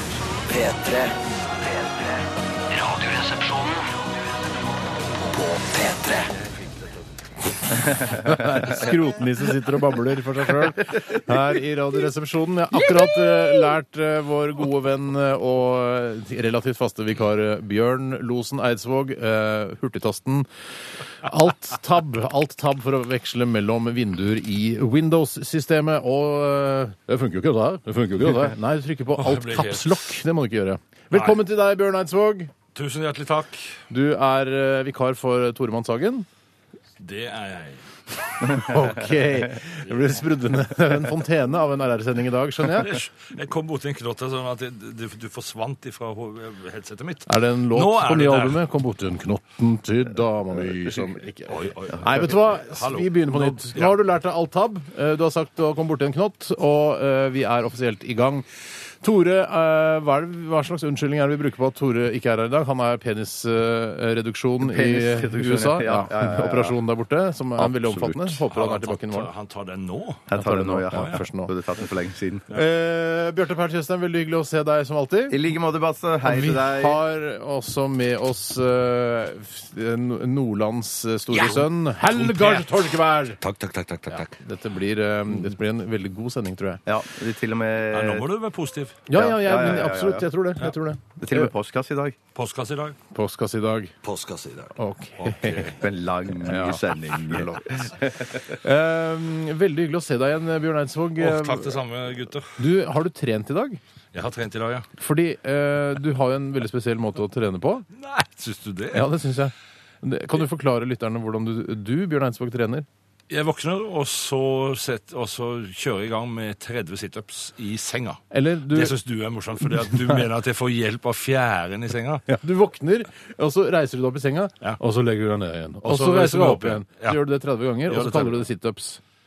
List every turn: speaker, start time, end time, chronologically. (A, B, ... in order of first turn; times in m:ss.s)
0:00.4-0:03.9 A
0:05.2-0:06.3 A
0:07.9-0:08.7 B
0:08.0-0:20.5 C
0:21.1-0:32.5 C
0:29.2-0:30.2 D
0:31.1-0:31.4 D
0:32.7-0:33.8 D
0:33.9-0:36.3 C
0:37.0-0:37.9 D
0:38.4-0:43.0 C
0:42.8-0:48.6 D
0:47.3-1:09.3 C
0:51.5-0:54.0 D
1:04.6-1:06.8 B
1:07.6-1:08.4 B
1:08.4-1:10.3 D
1:10.3-1:12.5 B
1:10.3-1:11.5 C
1:10.9-1:11.2 D
1:12.5-1:15.4 C
1:15.3-1:17.0 B
1:16.2-1:23.4 C
1:22.1-1:22.7 D
1:23.4-1:24.0 A
1:24.1-1:26.8 C
1:26.9-1:28.3 B
1:27.9-1:29.0 D
1:29.1-1:31.5 C
1:29.1-1:30.3 B
1:31.2-1:32.2 B
1:32.4-1:33.0 D
1:33.1-1:33.9 C
1:34.0-1:34.7 A
1:34.1-1:34.5 D
1:34.8-1:35.8 C
1:35.2-1:35.8 D
1:35.7-1:38.5 B
1:36.3-1:41.8 C
1:41.2-1:42.6 D
1:42.6-1:43.8 C
1:44.1-1:44.9 D
1:45.0-1:47.9 C
1:48.0-1:49.1 D
1:48.9-1:52.9 C
1:53.3-2:02.3 D
1:58.3-1:59.0 C
1:59.6-2:00.3 C
2:02.3-2:09.0 C
2:05.8-2:07.2 D
2:07.9-2:08.4 D